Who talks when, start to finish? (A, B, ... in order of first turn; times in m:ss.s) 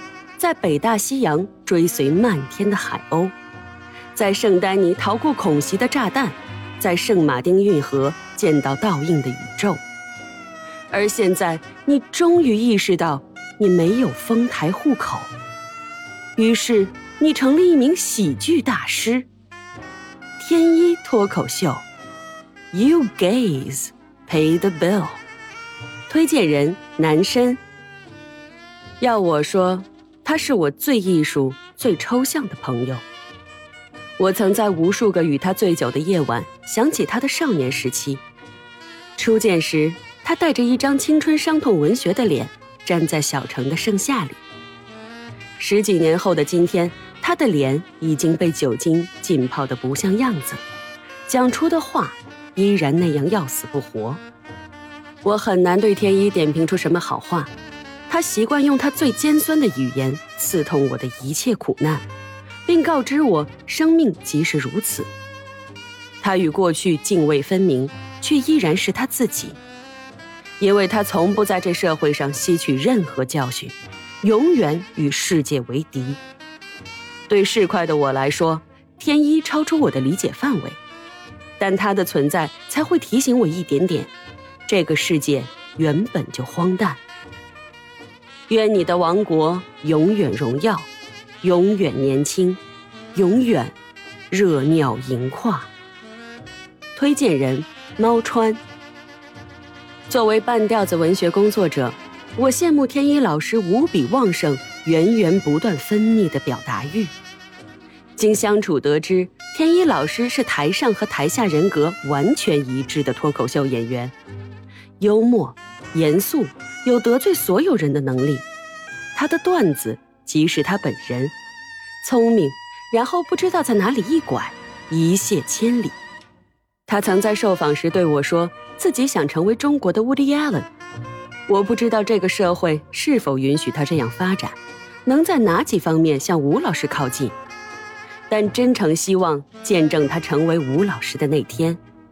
0:00.4-0:03.3 A
0:04.2-0:09.8 A
0:10.9-0:15.3 A
0:16.4-0:19.3 A
0:20.4-0:21.8 A
0:22.7-0:25.2 A
0:26.1-0:27.6 A
0:29.0-0:33.0 A
0:34.2-0:38.2 A
0:39.2-0:44.4 A
0:45.6-0:50.6 A
0:51.3-0:54.2 A
0:55.2-0:57.5 A
0:58.1-1:02.0 A
1:02.7-1:05.1 A
1:06.2-1:09.6 A
1:10.6-1:16.2 A
1:17.3-1:20.8 A
1:21.6-1:24.1 A
1:24.7-1:27.0 A
1:28.5-1:30.9 A
1:31.4-1:32.6 A
1:33.2-1:33.7 A
1:34.3-1:35.7 A
1:37.0-1:38.6 A
1:40.1-1:47.1 A
1:48.2-1:54.1 A
1:55.0-1:58.4 A
1:59.2-2:01.3 A
2:02.0-2:06.0 A
2:06.9-2:10.7 A
2:11.5-2:17.4 A
2:18.3-2:21.8 A